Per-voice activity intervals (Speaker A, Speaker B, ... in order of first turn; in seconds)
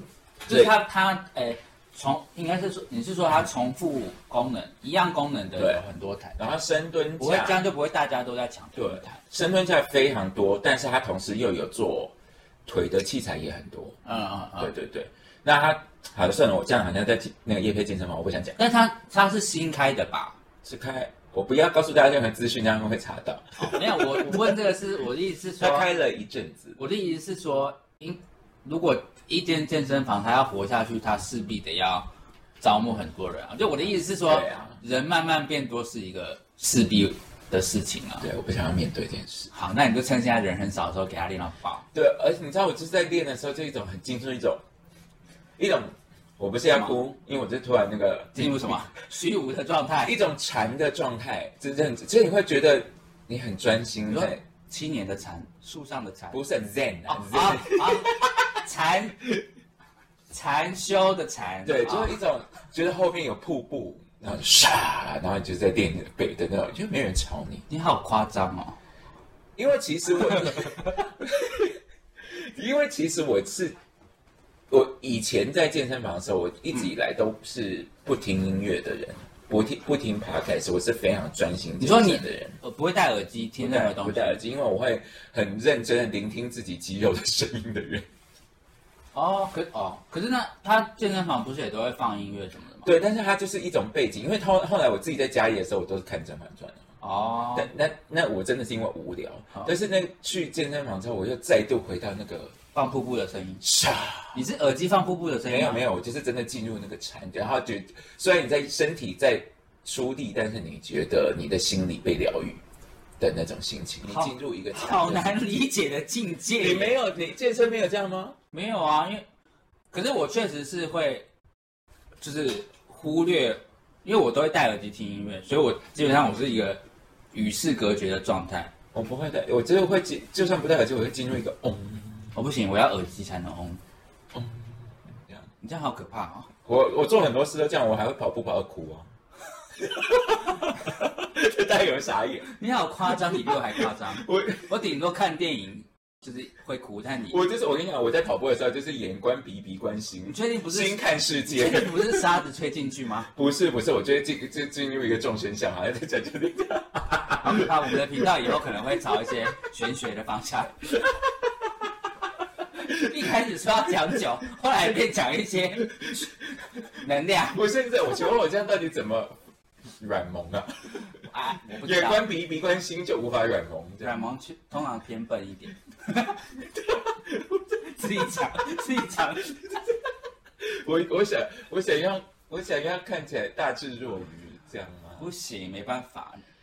Speaker A: 0.5-6.4, 7.2-9.2, 14.0-14.7, 18.6-20.4, 23.6-25.9, 26.8-32.1, 32.6-38.3, 39.5-41.9, 48.4-50.2, 54.1-56.4, 57.1-59.2, 60.3-62.2, 67.7-68.8, 81.8-84.4, 89.1-92.9, 97.0-97.7, 102.7-103.6, 104.3-105.8, 114.0-116.9, 118.5-119.2, 119.9-121.3, 122.2-126.8, 127.3-128.7, 132.3-133.8, 135.6-136.5, 142.5-147.4, 150.2-153.3, 157.4-160.8, 162.8-166.3, 167.0-167.6, 171.2-172.2, 174.0-176.5, 177.8-179.7, 185.2-186.4
Speaker B: 0.5-0.7, 5.5-5.8, 6.4-7.6, 8.8-12.1, 12.7-14.0, 14.6-18.6, 20.6-24.6, 25.6-26.8, 34.2-34.8, 38.2-39.5, 41.9-44.6, 45.6-48.9, 50.0-54.4, 56.3-58.5, 61.6-67.6, 69.6-73.8, 74.7-82.6, 83.6-88.1, 92.8-96.8, 97.5-102.5, 103.6-104.4, 105.5-112.6, 113.2-115.4, 116.6-118.4, 128.9-132.3, 134.3-135.5, 136.7-139.1, 139.7-142.5, 143.1-144.7, 147.3-152.3, 153.3-158.3, 160.9-161.5, 166.0-166.3, 167.4-169.4, 170.0-171.1, 171.7-174.2, 176.6-178.7, 180.6-185.2